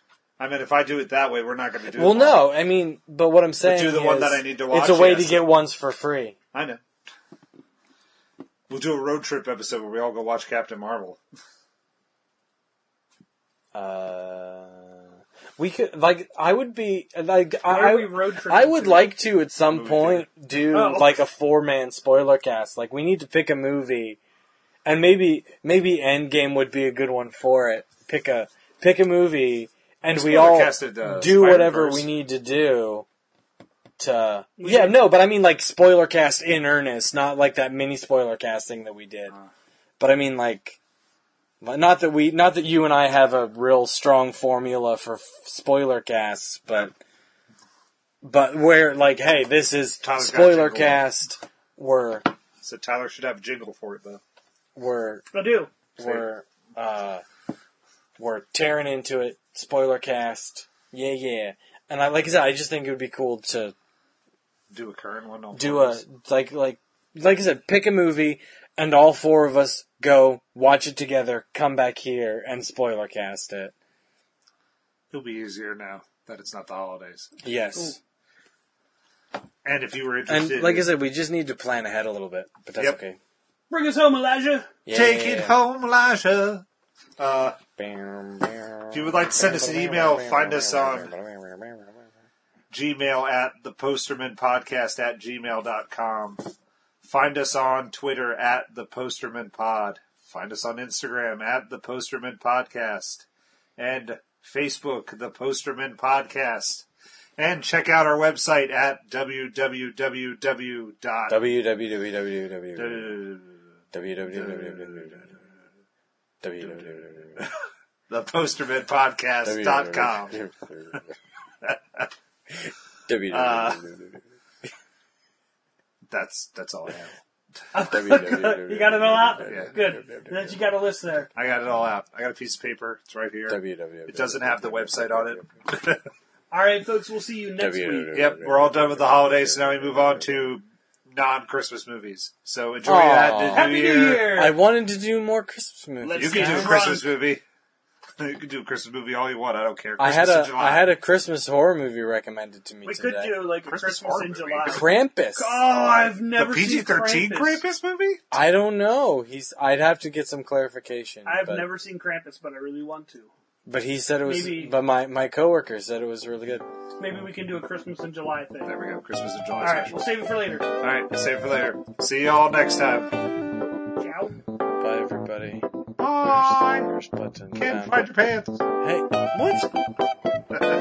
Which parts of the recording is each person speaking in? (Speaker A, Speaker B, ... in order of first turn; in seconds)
Speaker A: 0.4-2.5, 3.6-5.4, 6.5-6.8, 8.7-11.2, 19.7-20.3, 30.1-32.1, 50.0-51.1, 52.6-54.2, 56.0-56.2, 64.7-66.0, 75.1-77.3, 79.7-80.9, 84.9-86.7, 87.2-87.6, 88.9-91.1, 92.7-96.4, 97.0-103.3, 103.8-106.9, 107.4-111.4, 112.8-113.6, 114.3-115.4, 116.6-117.6, 118.1-120.4, 121.6-122.1, 123.3-123.8, 126.1-127.1, 129.5-129.8, 131.3-136.0, 138.1-144.3, 146.2-147.4, 148.2-150.9, 153.7-154.8, 156.3-158.2, 168.7-170.2, 170.8-173.1, 176.0-176.9, 177.6-178.7
Speaker B: 1.9-6.4, 13.7-24.2, 24.9-33.1, 34.0-39.4, 40.0-40.8, 41.6-47.0, 48.2-52.3, 54.8-55.3, 56.0-57.2, 58.2-63.8, 65.5-73.7, 77.4-78.0, 80.3-83.2, 84.9-85.6, 87.8-92.0, 111.3-113.2, 113.9-115.3, 116.4-117.5, 119.4-121.1, 122.5-124.2, 127.8-130.6, 133.5-135.5, 137.6-140.5, 142.8-147.0, 150.0-153.4, 154.7-155.6, 158.3-161.7, 163.7-166.7, 174.8-175.7, 176.3-178.1, 178.8-179.7
Speaker C: 17.7-19.2, 20.7-21.2, 34.6-35.0, 55.3-55.7, 83.7-84.7, 127.7-131.3, 136.5-138.1, 143.5-144.6, 146.0-147.1, 152.8-157.6, 161.3-163.3, 164.2-164.8, 167.0-168.7, 169.6-170.7, 174.0-174.4